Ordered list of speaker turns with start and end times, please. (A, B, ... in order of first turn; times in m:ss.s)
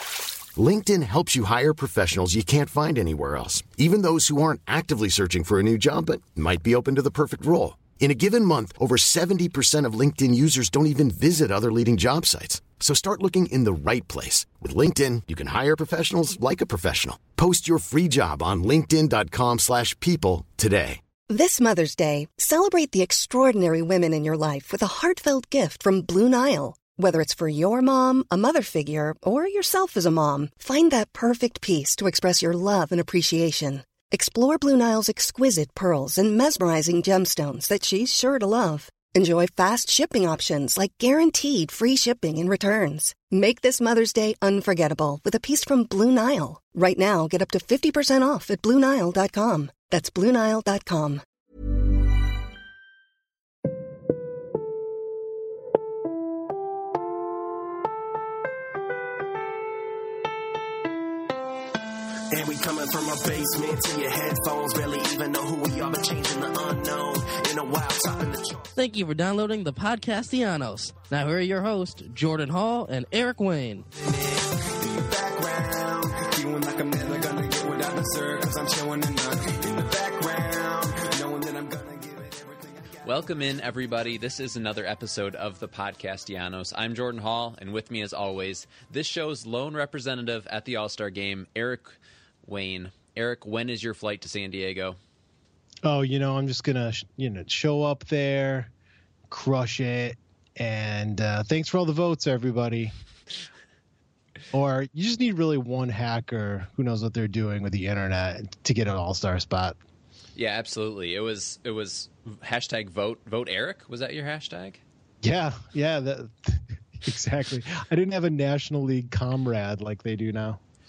0:00.6-0:21.0 A
0:21.3-0:51.2 B
1:02.3-1:08.7 C
1:08.8-1:13.9 D
1:14.0-1:23.0 C
1:23.0-1:35.0 E
1:35.8-1:38.7 F
1:39.3-1:42.9 F
1:44.5-1:49.8 F
1:50.4-1:54.8 E
1:55.2-2:00.6 F